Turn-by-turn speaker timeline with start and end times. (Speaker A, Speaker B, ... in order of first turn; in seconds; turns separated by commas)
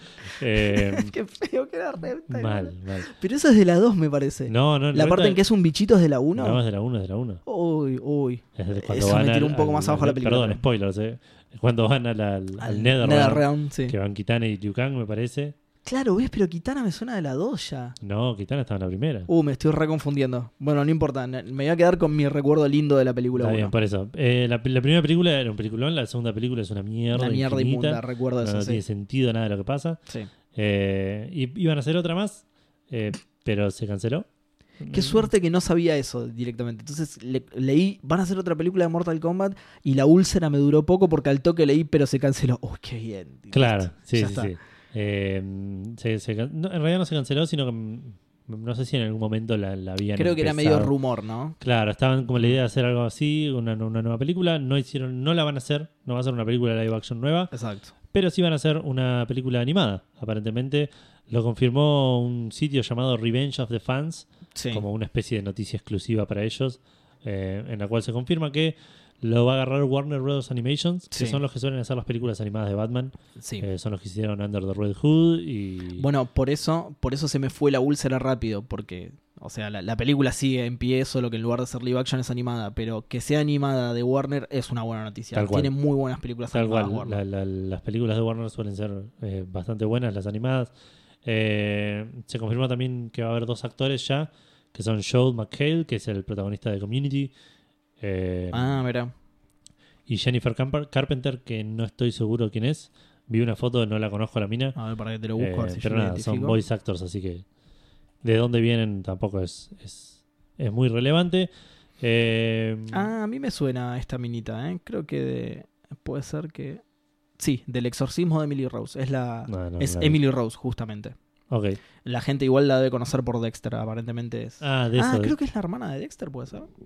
Speaker A: 0.2-1.1, Speaker B: 0.4-6.6, Speaker A: 2.3-3.1, Speaker A: 4.5-5.4, Speaker A: 6.3-7.4, Speaker B: 7.5-10.6, Speaker A: 8.6-15.5, Speaker B: 12.6-13.9, Speaker B: 15.8-17.9, Speaker A: 18.0-19.3, Speaker B: 19.3-23.7, Speaker A: 23.3-30.0, Speaker B: 27.1-28.8, Speaker A: 30.5-34.2, Speaker A: 34.8-35.3, Speaker B: 34.9-44.5, Speaker A: 43.5-50.9, Speaker B: 50.1-51.5, Speaker A: 51.6-57.5, Speaker B: 57.5-57.9, Speaker A: 58.1-76.0, Speaker B: 64.5-64.8, Speaker B: 71.1-71.4, Speaker B: 73.4-73.6, Speaker B: 76.0-87.2, Speaker A: 85.3-85.7, Speaker A: 86.5-90.7, Speaker A: 91.2-97.3, Speaker A: 98.0-98.8, Speaker B: 98.5-99.1, Speaker A: 100.1-104.8, Speaker B: 104.8-106.6, Speaker A: 105.4-107.4, Speaker A: 108.2-111.5, Speaker A: 112.0-113.1, Speaker B: 112.9-116.8, Speaker B: 117.4-121.2, Speaker A: 119.5-120.2, Speaker A: 121.5-121.8, Speaker B: 122.0-126.7, Speaker A: 124.6-125.3